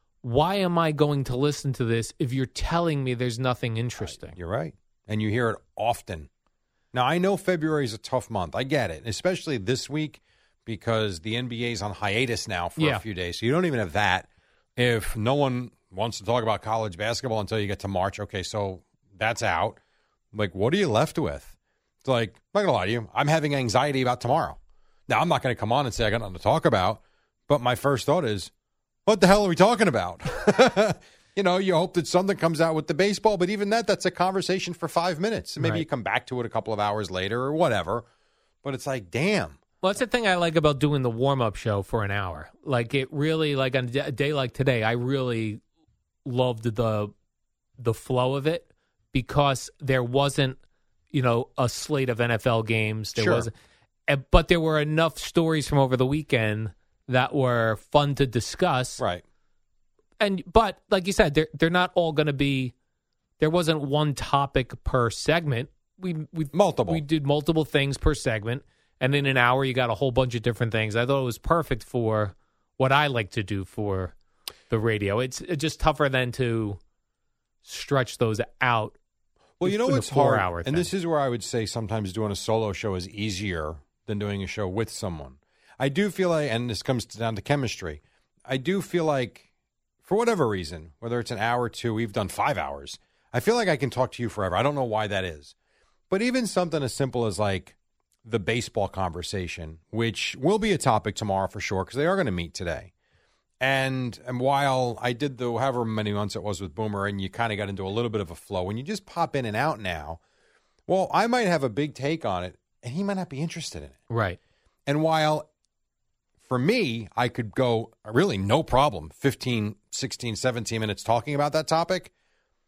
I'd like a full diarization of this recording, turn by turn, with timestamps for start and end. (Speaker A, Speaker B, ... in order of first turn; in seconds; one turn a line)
Speaker A: 0.2-4.4
Speaker B: 4.0-6.3
Speaker B: 6.9-19.8
Speaker A: 12.8-13.0
Speaker B: 20.3-21.5
Speaker B: 22.0-28.5
Speaker B: 29.1-38.0
Speaker A: 35.6-35.9
Speaker B: 38.6-39.6
Speaker A: 39.8-45.6
Speaker A: 46.2-47.1
Speaker A: 47.8-50.6
Speaker A: 51.1-53.5
Speaker B: 53.2-53.5
Speaker A: 54.1-59.0
Speaker A: 60.2-62.7
Speaker A: 63.4-74.1
Speaker B: 66.5-67.0
Speaker A: 74.7-76.8
Speaker A: 77.6-79.0
Speaker B: 79.6-89.5
Speaker A: 79.6-80.9
Speaker B: 90.0-95.5
Speaker B: 96.1-97.8
Speaker B: 98.3-102.9
Speaker B: 103.6-110.2
Speaker B: 110.9-114.0
Speaker A: 114.1-114.4
Speaker B: 114.9-115.5
Speaker B: 116.5-122.1